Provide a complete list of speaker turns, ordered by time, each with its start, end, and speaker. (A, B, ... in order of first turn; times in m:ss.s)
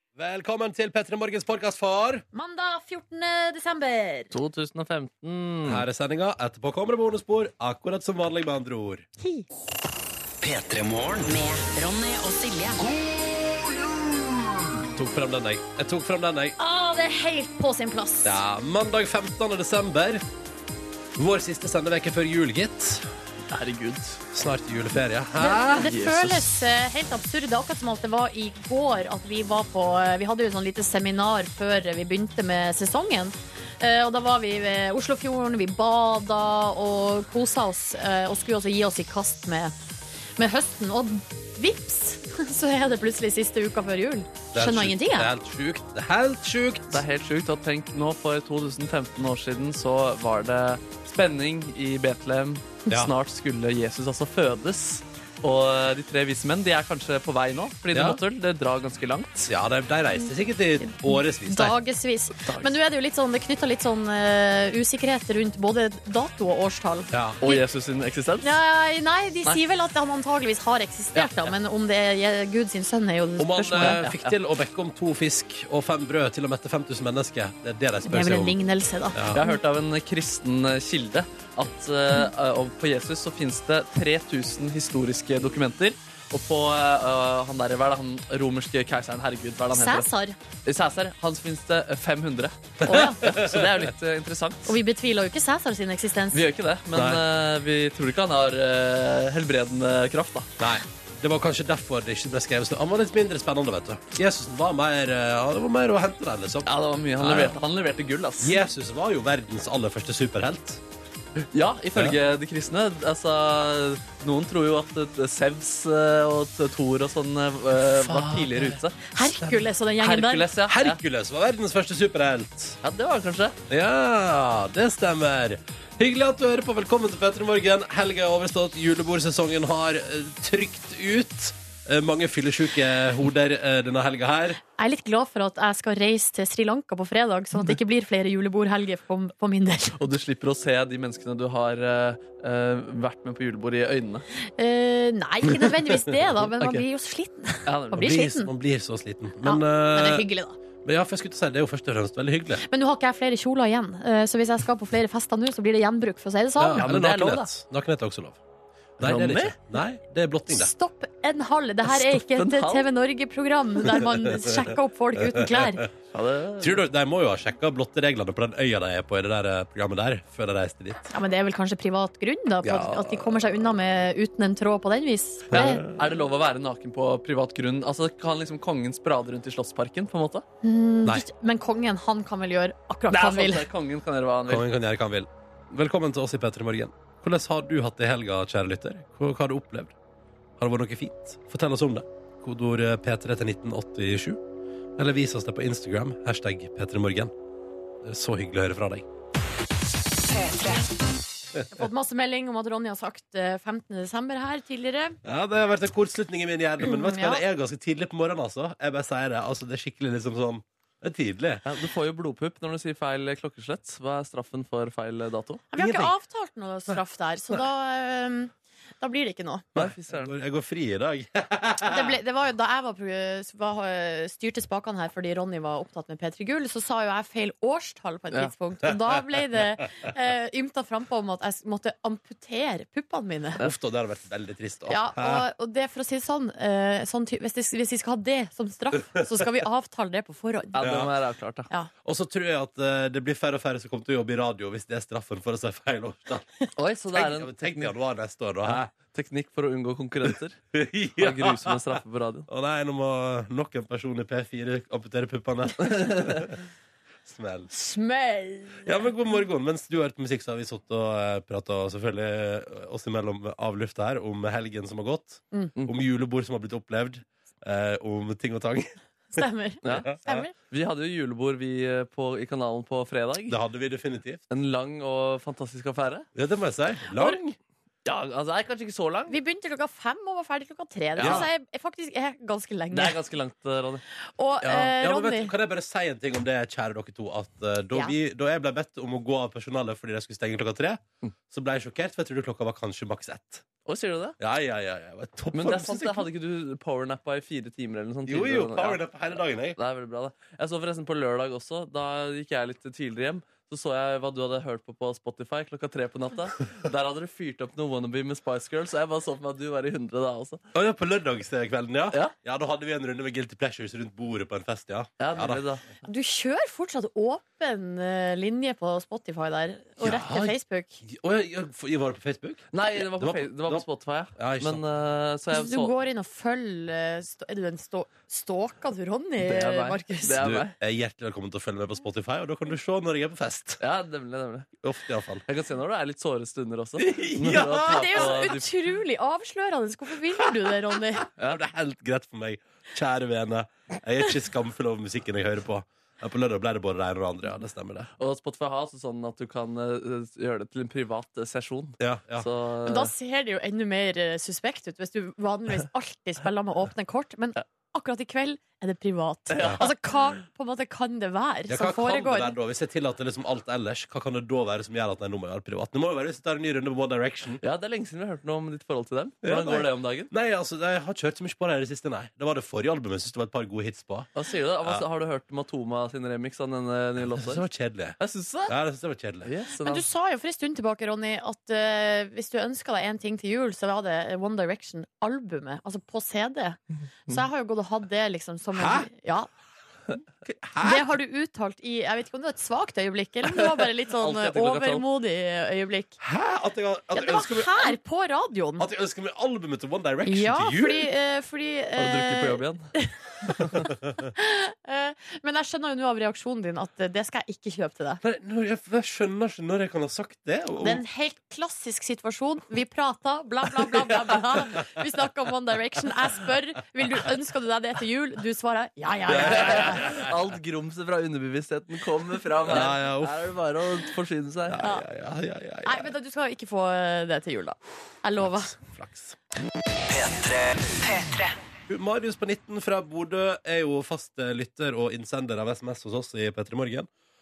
0:00.2-0:02.2 A
0:02.3-0:04.3 B
0:04.3-0:05.8 C
0:05.6-0:09.0 A
0:09.2-0:09.5 B
0:10.4-0:12.9 D
0:14.8-0:16.6 A
0:16.6-0:18.4 B
0:18.2-0:20.2 A
0:21.2-0:23.1 A
0:23.5-0:24.2 C
0:24.3-0:26.3 A
0:25.4-0:39.7 B
0:25.7-0:26.4 C
0:40.4-0:45.3 B
0:44.5-0:47.0 A
0:46.9-0:59.4 C
0:57.9-0:58.2 A
0:59.4-1:01.7 A
1:00.8-1:07.6 B
1:02.4-1:02.7 C
1:07.1-1:07.4 A
1:07.4-1:08.5 C
1:08.4-1:14.0 B
1:11.1-1:11.5 C
1:13.4-1:18.6 A
1:13.7-1:14.3 C
1:18.0-1:19.6 B
1:19.1-1:19.4 A
1:19.3-1:30.1 C
1:29.7-1:30.4 B
1:30.6-1:34.8 C
1:32.8-1:33.7 A
1:32.8-1:33.2 B
1:34.6-1:36.4 B
1:36.3-1:40.5 C
1:36.9-1:37.2 A
1:40.6-1:47.6 A
1:46.6-1:48.6 C
1:48.4-1:50.8 A
1:51.5-1:59.0 C
1:57.8-1:58.8 A
1:59.1-2:00.5 B
1:59.4-1:59.7 A
2:00.0-2:01.0 C
2:00.7-2:02.8 A
2:02.8-2:03.6 C
2:03.7-2:14.6 A
2:14.8-2:20.0 B
2:20.0-2:24.2 C
2:24.4-2:28.5 B
2:27.6-2:28.3 C
2:28.0-2:30.3 A
2:29.4-2:30.6 B
2:30.8-2:32.6 A
2:32.6-2:36.8 B
2:36.6-2:38.4 A
2:36.8-2:37.5 C
2:39.0-2:40.7 A
2:39.0-2:39.5 C
2:40.5-2:45.8 B
2:41.9-2:42.9 C
2:45.2-2:45.9 A
2:46.1-2:46.8 C
2:46.6-2:51.1 A
2:51.1-2:55.8 B
2:52.7-2:53.2 C
2:55.5-2:55.9 A
2:55.5-3:00.4 C
3:00.6-3:03.6 B
3:03.1-3:04.7 C
3:04.5-3:09.9 A
3:10.6-3:14.4 A
3:15.0-3:17.3 A
3:18.0-3:19.0 A
3:20.3-3:20.8 D
3:21.7-3:25.2 B
3:25.2-3:31.6 A
3:26.8-3:27.4 B
3:31.6-3:35.6 C
3:35.7-3:39.7 B
3:35.8-3:36.1 A
3:39.7-3:40.3 C
3:39.7-3:42.2 A
3:41.8-3:53.6 B
3:53.6-3:55.4 A
3:54.9-4:00.8 B
4:00.8-4:01.7 C
4:00.8-4:01.1 A
4:02.0-4:06.4 A
4:06.8-4:07.9 C
4:07.1-4:08.9 A
4:08.7-4:10.6 C
4:10.7-4:16.6 A
4:11.2-4:12.5 C
4:15.9-4:16.4 C
4:17.2-4:17.7 A
4:17.7-4:19.0 B
4:18.8-4:28.9 A
4:29.3-4:30.5 B
4:29.8-4:33.6 C
4:29.8-4:30.4 A
4:33.5-4:34.4 A
4:34.5-4:36.3 C
4:36.3-4:37.6 A
4:38.0-4:39.4 C
4:39.3-4:43.2 B
4:41.2-4:41.5 C
4:41.2-4:41.5 A
4:42.9-4:44.0 C
4:44.2-4:45.5 B
4:44.6-4:53.7 A
4:53.8-4:54.4 C
4:54.4-4:56.3 A
4:55.5-4:59.0 C
4:58.2-4:59.8 A
4:59.7-5:10.6 C
5:10.7-5:15.6 A
5:15.2-5:15.8 C
5:16.0-5:21.0 B
5:20.0-5:23.8 A
5:22.7-5:25.9 C
5:24.4-5:24.8 A
5:25.5-5:30.4 B
5:29.4-5:30.8 C
5:30.4-5:33.8 A
5:33.8-5:34.7 C
5:34.8-5:35.4 A
5:35.5-5:38.7 C
5:37.0-5:38.4 A
5:37.9-5:41.2 B
5:41.4-5:48.1 A
5:48.2-5:53.1 C
5:52.0-5:52.5 A
5:52.8-6:02.5 B
5:59.5-5:59.9 C
5:59.6-5:59.9 A
6:01.7-6:07.6 A
6:07.6-6:10.3 C
6:09.4-6:14.3 A
6:14.3-6:17.6 C
6:17.4-6:19.5 A
6:18.2-6:18.7 C
6:19.4-6:20.0 C
6:19.8-6:29.5 B
6:28.7-6:29.1 A
6:30.4-6:31.1 A
6:30.8-6:36.2 B
6:33.5-6:35.0 C
6:36.2-6:38.0 A
6:37.1-6:38.8 B
6:38.8-6:41.1 A
6:40.2-6:43.1 B
6:42.0-6:42.9 C
6:43.5-6:43.8 C
6:43.7-6:44.2 A
6:44.3-6:48.2 B
6:48.2-6:51.0 A
6:50.8-7:00.2 B
6:59.3-7:00.3 A
6:59.4-7:04.8 C
7:02.6-7:03.5 A
7:04.7-7:06.1 A
7:05.8-7:08.7 B
7:08.4-7:09.4 A
7:10.1-7:11.5 D
7:11.9-7:17.1 A